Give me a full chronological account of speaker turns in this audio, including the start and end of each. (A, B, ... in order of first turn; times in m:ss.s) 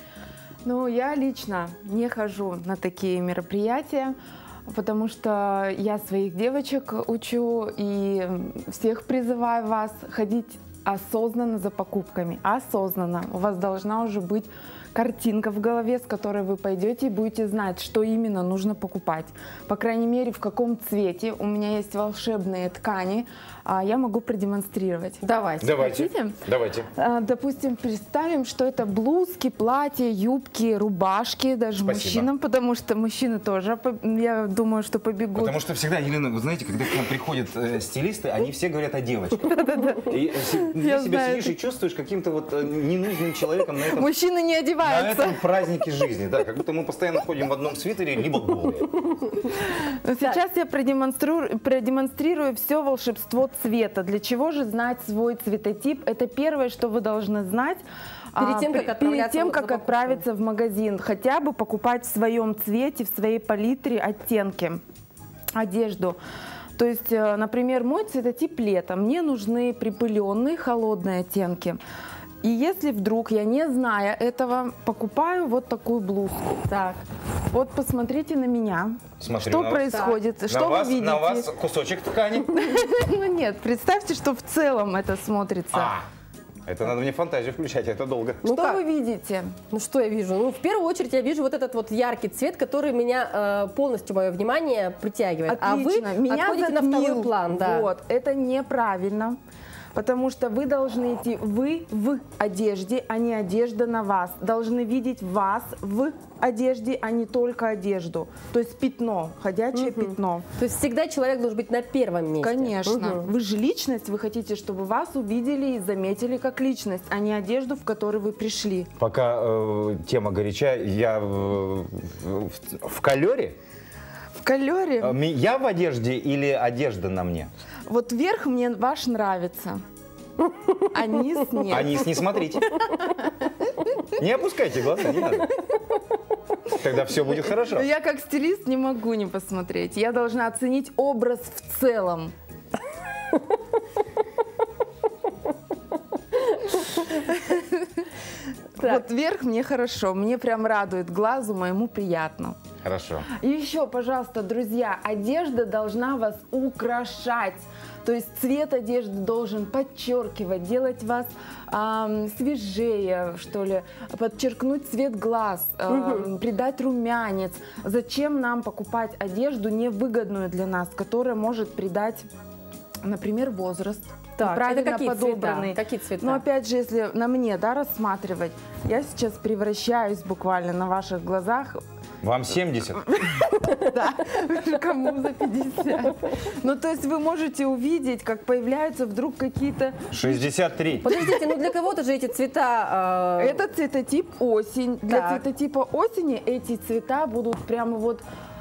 0:00.6-0:04.1 A
0:04.7-0:25.2 A
0:25.2-0:25.8 B
0:25.6-0:26.9 C
0:25.7-0:26.4 A
0:27.0-0:35.6 A
0:31.8-0:32.3 C
0:35.3-0:39.5 C
0:39.5-0:41.5 A
0:40.0-0:44.1 C
0:43.7-0:45.4 A
0:44.8-0:48.9 C
0:49.2-0:49.5 B
0:49.6-0:57.8 A
0:58.4-1:00.2 B
0:58.4-1:04.8 A
1:05.6-1:06.2 A
1:06.8-1:11.8 A
1:12.4-1:16.6 A
1:16.7-1:17.0 B
1:17.5-1:21.5 A
1:19.2-1:22.5 C
1:19.9-1:20.2 B
1:22.5-1:26.0 A
1:25.7-1:26.0 C
1:26.7-1:28.4 C
1:28.4-1:28.8 B
1:28.5-1:29.5 A
1:29.7-1:37.9 B
1:35.5-1:39.3 A
1:40.0-1:50.4 A
1:49.7-1:53.3 B
1:52.4-1:58.9 A
1:59.0-2:03.6 C
2:04.4-2:05.2 A
2:05.0-2:07.5 C
2:07.9-2:09.8 A
2:10.9-2:12.0 A
2:11.7-2:12.8 C
2:14.1-2:15.5 C
2:16.7-2:17.9 C
2:17.7-2:22.3 A
2:26.4-2:27.0 B
2:27.2-2:27.8 A
2:28.9-2:32.6 A
2:32.8-2:33.3 C
2:33.4-2:52.2 A
2:45.9-2:46.3 B
2:53.1-3:01.7 A
2:54.4-2:56.4 B
3:02.2-3:03.2 C
3:03.1-3:10.0 A
3:10.1-3:11.2 C
3:11.0-3:13.6 B
3:13.4-3:18.2 A
3:15.1-3:15.4 B